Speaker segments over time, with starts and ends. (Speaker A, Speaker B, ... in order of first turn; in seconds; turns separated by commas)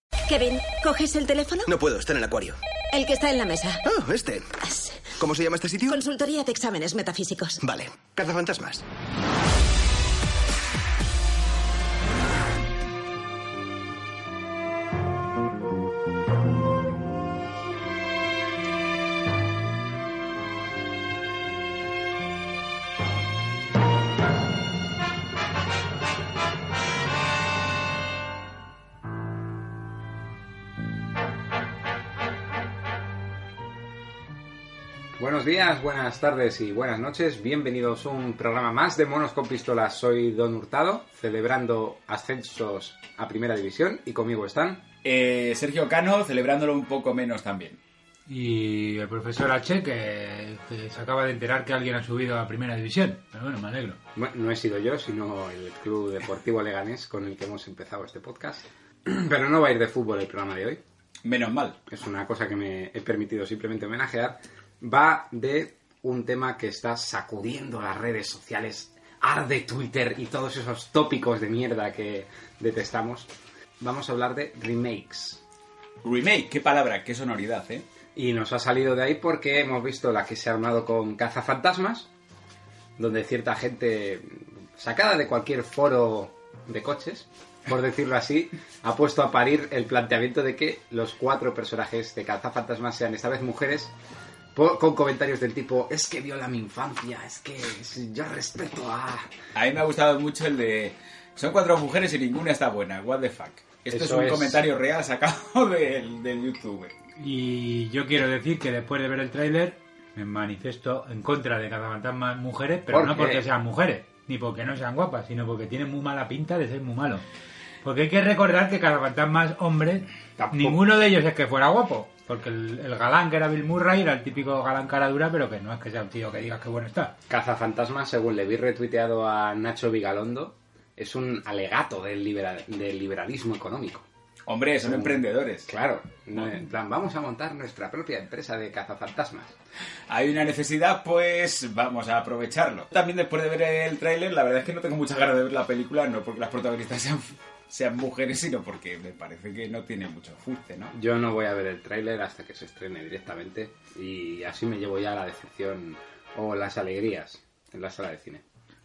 Speaker A: 0.3-1.8, Speaker B: 1.7-2.5, Speaker A: 2.9-3.9, Speaker B: 3.9-4.4, Speaker A: 4.5-5.2, Speaker B: 5.2-5.9, Speaker A: 5.9-7.7, Speaker B: 7.7-8.8, Speaker C: 35.2-44.8, Speaker D: 45.0-47.8, Speaker E: 48.3-54.0, Speaker C: 54.1-60.8, Speaker D: 61.2-61.8, Speaker C: 61.9-75.4, Speaker D: 76.0-77.9, Speaker C: 78.2-82.1, Speaker C: 83.0-93.9, Speaker C: 94.5-99.3, Speaker D: 99.5-106.9, Speaker C: 103.9-104.7, Speaker E: 107.2-117.2, Speaker C: 112.9-113.5, Speaker E: 117.8-127.2, Speaker C: 120.4-120.9, Speaker C: 127.3-134.1, Speaker D: 134.5-135.7, Speaker C: 134.8-139.6, Speaker D: 140.1-150.9, Speaker C: 150.9-158.4